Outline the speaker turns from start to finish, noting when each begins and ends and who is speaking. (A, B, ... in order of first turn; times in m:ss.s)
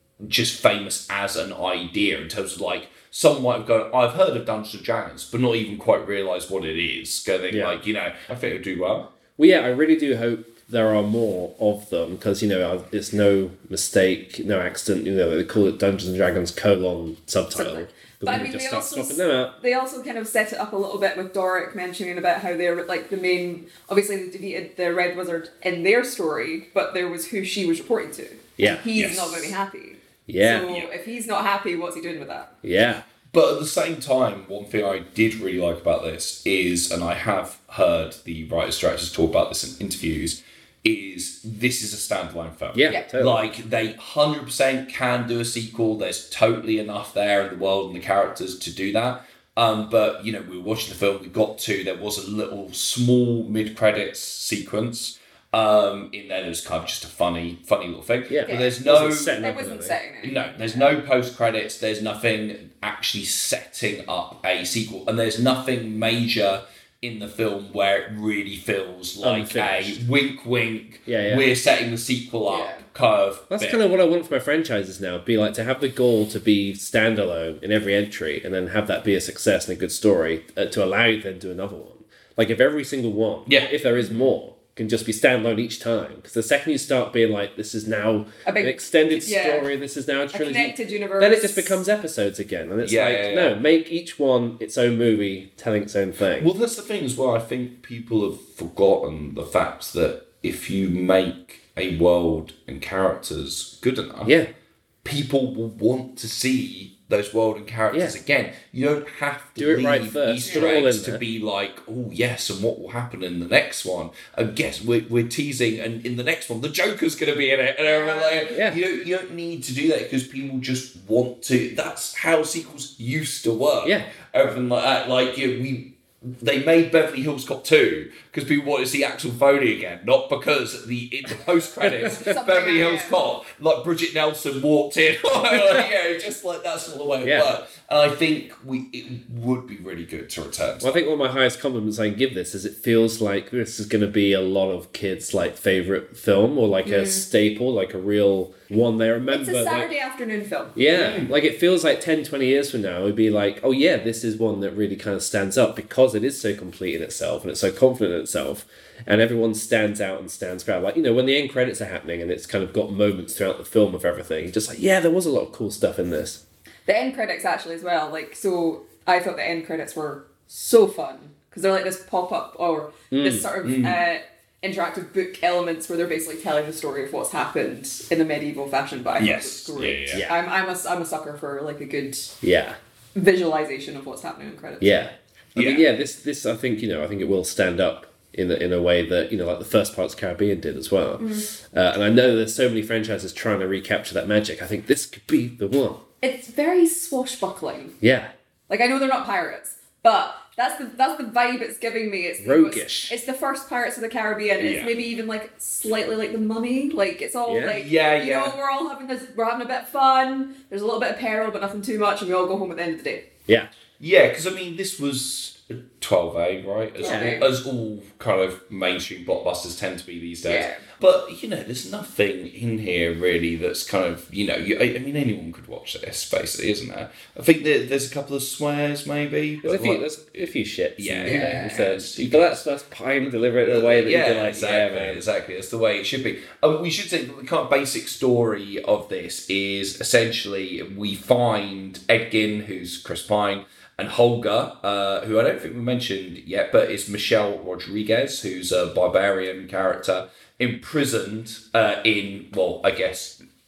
0:00.2-0:09.1 A
0:07.5-0:07.8 B
0:09.4-0:19.6 B
0:17.5-0:32.5 C
0:28.6-0:28.8 B
0:29.0-0:29.6 A
0:30.3-0:30.7 B
0:32.6-0:33.0 B
0:33.3-0:59.4 A
0:42.7-0:43.4 B
0:58.3-1:00.0 B
0:58.5-0:58.8 C
0:59.4-1:00.9 C
1:00.2-1:13.8 A
1:09.2-1:10.0 B
1:11.1-1:11.5 B
1:12.5-1:12.8 C
1:13.5-1:36.5 B
1:23.5-1:23.7 A
1:24.0-1:24.3 C
1:28.5-1:29.7 C
1:30.3-1:31.8 C
1:32.8-1:33.6 A
1:36.4-1:44.3 A
1:44.2-1:44.5 B
1:45.0-2:20.9 A
1:49.6-1:51.2 B
1:50.4-1:50.7 C
1:57.9-1:58.5 C
1:58.5-1:58.8 B
2:03.8-2:04.1 B
2:12.1-2:13.2 C
2:17.2-2:17.5 B
2:20.8-2:29.9 B
2:26.8-2:27.3 C
2:29.3-2:30.7 C
2:30.8-2:46.4 B
2:30.9-2:31.3 A
2:46.9-3:02.4 C
2:53.1-2:53.5 B
2:53.6-2:54.0 A
2:59.2-3:00.2 A
3:00.1-3:00.4 B
3:02.4-3:02.8 B
3:03.2-3:05.1 C
3:04.8-3:16.0 B
3:05.6-3:05.9 A
3:11.2-3:11.5 C
3:16.2-3:18.0 C
3:18.0-3:18.3 B
3:18.7-3:33.3 C
3:22.4-3:23.2 B
3:24.6-3:25.0 A
3:27.5-3:27.8 B
3:27.7-3:28.6 A
3:34.0-3:50.2 A
3:37.0-3:37.5 C
3:37.0-3:37.5 B
3:40.5-3:40.8 C
3:49.6-3:55.2 B
3:51.0-3:52.7 A
3:51.3-3:51.6 C
3:53.4-4:13.4 A